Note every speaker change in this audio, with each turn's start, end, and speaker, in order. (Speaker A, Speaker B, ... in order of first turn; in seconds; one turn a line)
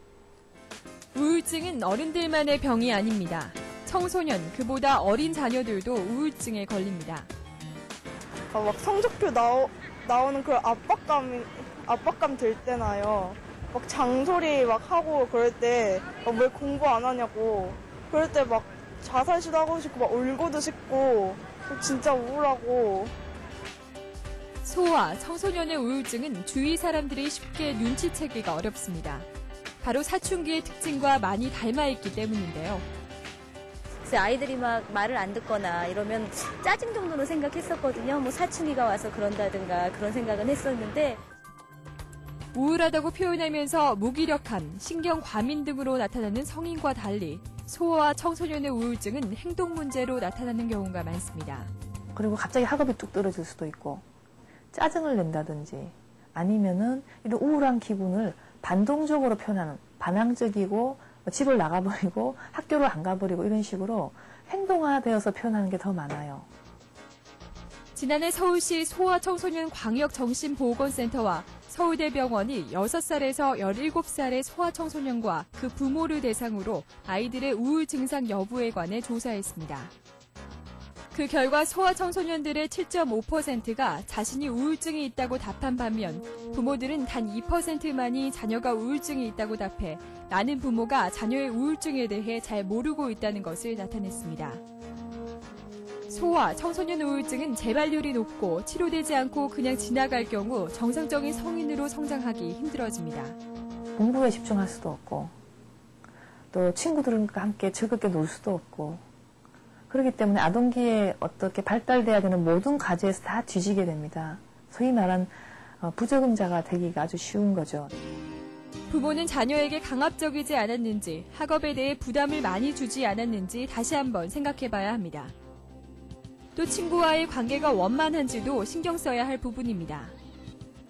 Speaker A: 1.1-7.3
Speaker B: 8.5-23.1
Speaker A: 24.6-29.3
Speaker A: 29.8-32.9
Speaker C: 34.0-41.2
Speaker A: 42.5-51.7
Speaker D: 52.1-54.0
Speaker D: 54.7-66.5
Speaker A: 67.9-79.9
Speaker A: 81.1-94.6
Speaker A: 96.1-103.4
Speaker D: 104.0-105.3
Speaker D: 106.5-109.0
Speaker D: 109.9-117.9
Speaker A: 118.9-125.3
Speaker A: 126.5-130.1